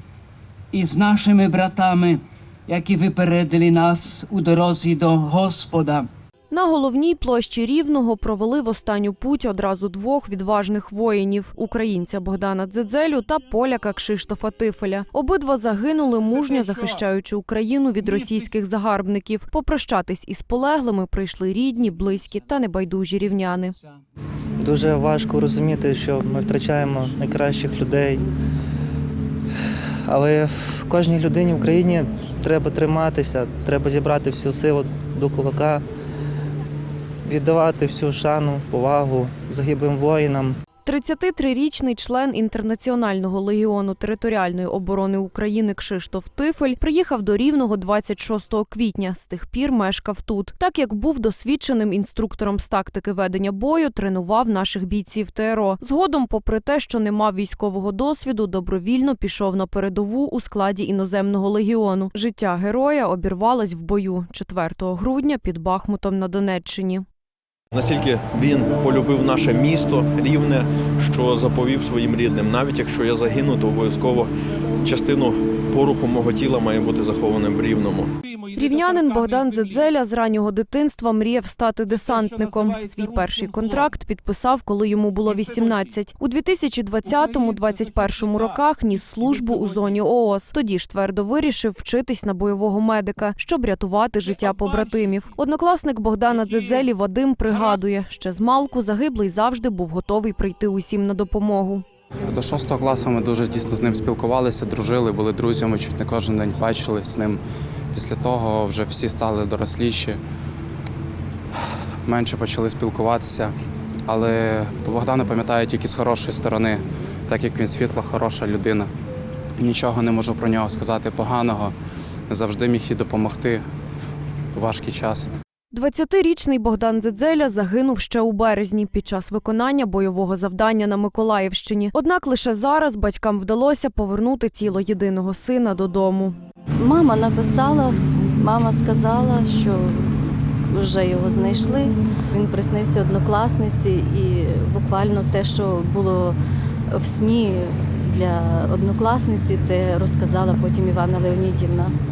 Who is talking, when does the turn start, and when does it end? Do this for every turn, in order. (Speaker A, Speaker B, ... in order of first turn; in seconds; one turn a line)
Speaker A: 0.7-6.1
Speaker B: 6.5-23.8
Speaker C: 24.6-28.2
Speaker C: 30.1-35.8
Speaker C: 37.2-40.6
Speaker B: 40.9-67.0
Speaker D: 67.7-74.3
Speaker D: 74.9-78.0
Speaker B: 78.5-101.8
Speaker E: 102.3-107.4
Speaker E: 107.9-110.2
Speaker E: 112.1-113.5
Speaker E: 114.1-118.9
Speaker E: 119.6-121.7
Speaker E: 122.3-123.6
Speaker E: 124.5-125.3
Speaker B: 125.7-136.4
Speaker F: 136.8-146.4
Speaker F: 146.9-151.9